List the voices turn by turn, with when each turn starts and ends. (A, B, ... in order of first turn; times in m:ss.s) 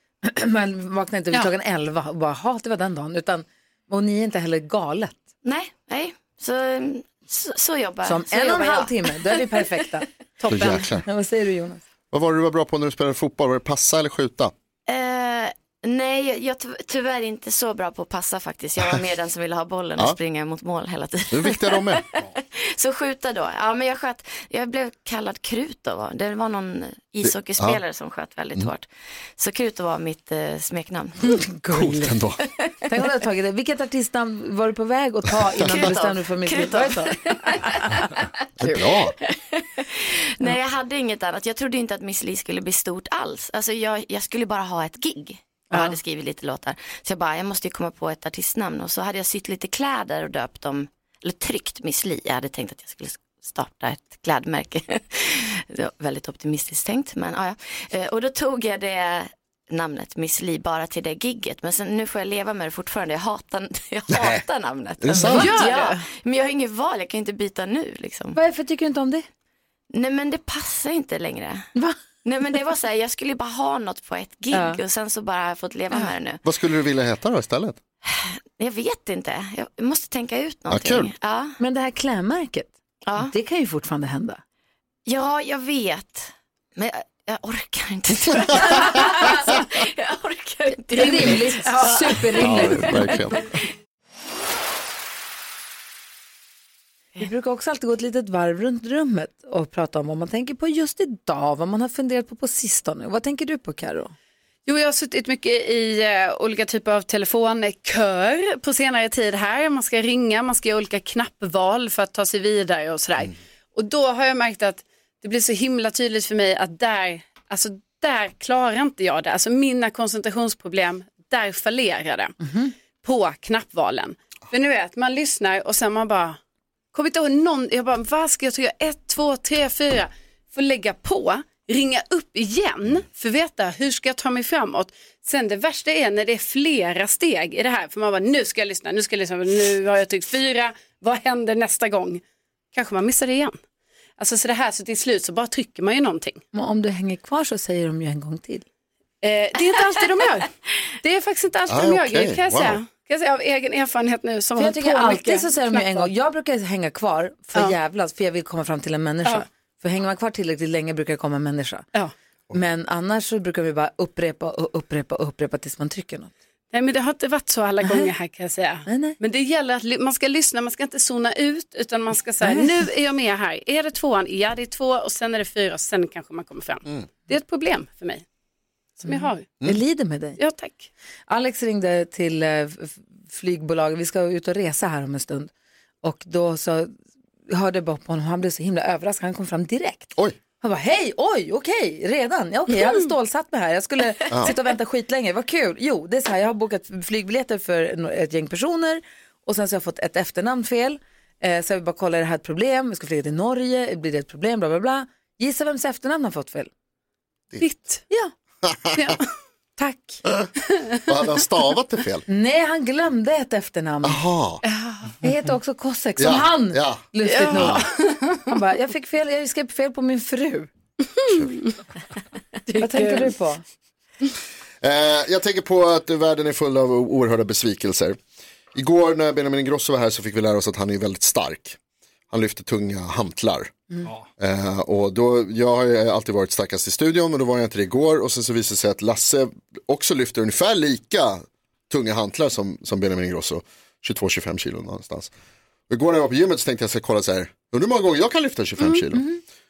0:00.2-0:05.2 A
0:05.4-0:09.8 B
0:08.0-0:11.8 A
0:10.4-0:10.8 C
0:10.5-0:11.0 D
0:12.1-0:14.5 D
0:14.8-0:31.4 B
0:18.8-0:19.0 D
0:21.3-0:22.1 D
0:27.2-0:27.8 D
0:31.3-0:32.2 A
0:31.7-0:32.4 D
0:32.9-0:37.7 A
0:35.5-0:35.9 D
0:35.6-1:08.4 B
0:38.6-0:39.1 D
0:45.7-0:46.0 A
1:04.1-1:04.4 D
1:05.0-1:05.5 D
1:05.1-1:05.9 A
1:05.2-1:06.0 C
1:08.3-1:09.2 A
1:09.9-1:11.7 B
1:12.2-1:16.4 B
1:14.5-1:14.8 A
1:16.4-1:17.8 D
1:18.0-1:21.6 B
1:20.7-1:21.1 D
1:21.6-1:24.4 A
1:23.0-1:23.3 B
1:25.0-1:33.4 B
1:30.9-1:33.2 A
1:32.3-1:33.4 D
1:37.2-1:44.1 A
1:44.6-2:02.4 C
2:02.4-2:02.7 A
2:03.0-2:06.4 C
2:06.9-2:22.2 C
2:22.7-2:23.6 C
2:24.2-2:26.4 C
2:26.5-2:28.6 A
2:29.2-2:36.1 C
2:31.7-2:32.8 D
2:34.6-2:41.8 A
2:42.5-2:46.3 A
2:46.7-2:58.2 C
2:47.8-2:48.1 A
2:48.8-2:49.2 A
2:52.4-2:52.7 A
2:59.0-2:59.5 C
2:59.0-3:00.4 A
3:00.4-3:00.9 C
3:01.3-3:05.5 A
3:06.0-3:06.9 A
3:07.5-3:26.7 A
3:27.6-3:28.0 C
3:28.6-3:29.1 D
3:28.9-3:29.3 C
3:29.8-3:30.2 A
3:31.0-3:32.2 D
3:32.3-3:34.2 A
3:34.0-3:34.6 D
3:34.7-3:35.1 C
3:35.2-3:40.7 A
3:36.2-3:37.8 D
3:37.2-3:38.5 C
3:41.2-3:41.7 C
3:42.7-3:43.3 C
3:42.8-3:43.6 A
3:44.8-3:48.2 D
3:48.7-3:51.8 D
3:52.3-3:53.8 D
3:54.4-4:05.3 D
4:05.9-4:09.3 D
4:09.1-4:09.4 A